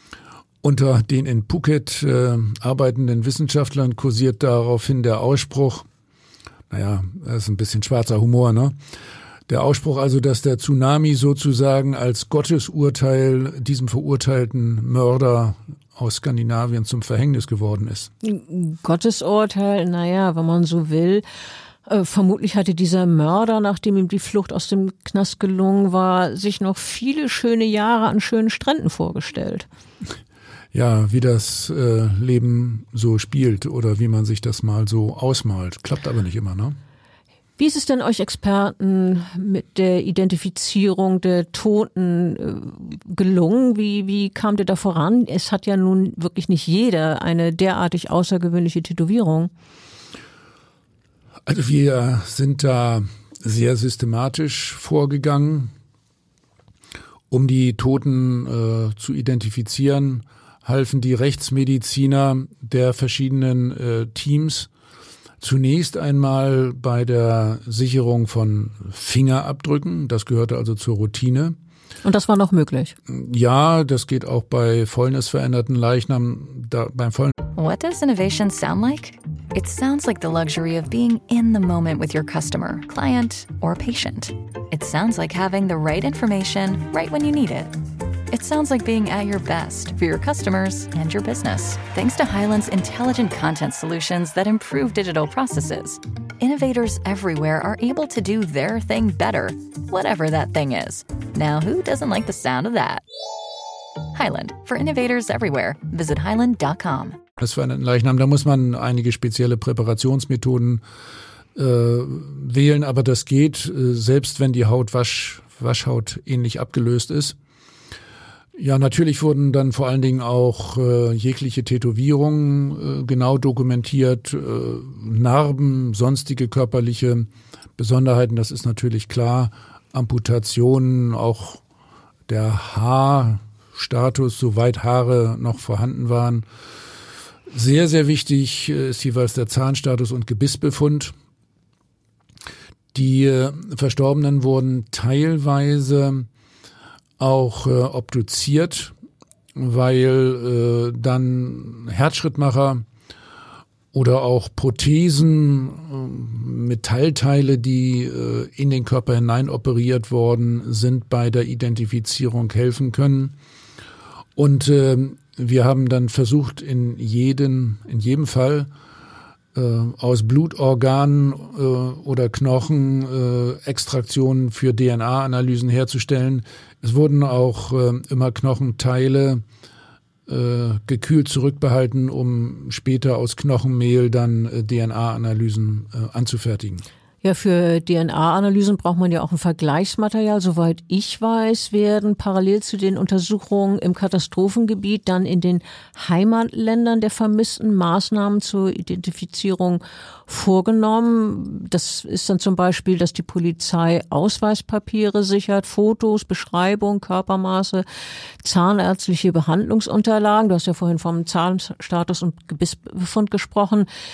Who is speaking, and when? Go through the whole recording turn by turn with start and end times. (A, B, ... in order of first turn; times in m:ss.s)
0:00.6-0:05.9 A
0:06.7-0:08.8 A
0:09.5-0:18.1 A
0:18.2-0:21.2 B
0:21.8-0:29.7 B
0:30.7-0:36.8 A
0:37.6-0:49.5 B
0:51.4-0:55.7 A
0:57.3-1:04.7 A
1:05.4-1:11.6 A
1:12.0-1:12.9 B
1:13.1-1:17.3 A
1:17.5-1:27.7 C
1:28.3-1:43.0 C
1:44.1-1:47.2 C
1:47.4-1:50.8 A
1:51.5-1:57.4 A
1:58.6-2:11.6 A
2:12.3-2:16.4 A
2:17.5-2:21.1 A
2:22.9-2:26.3 A
2:27.2-2:28.9 A
2:29.6-2:32.8 A
2:33.9-2:43.3 A
2:44.4-2:48.7 A
2:49.5-2:59.4 A
3:00.3-3:06.8 A
3:07.2-3:27.8 B
3:28.4-3:33.9 B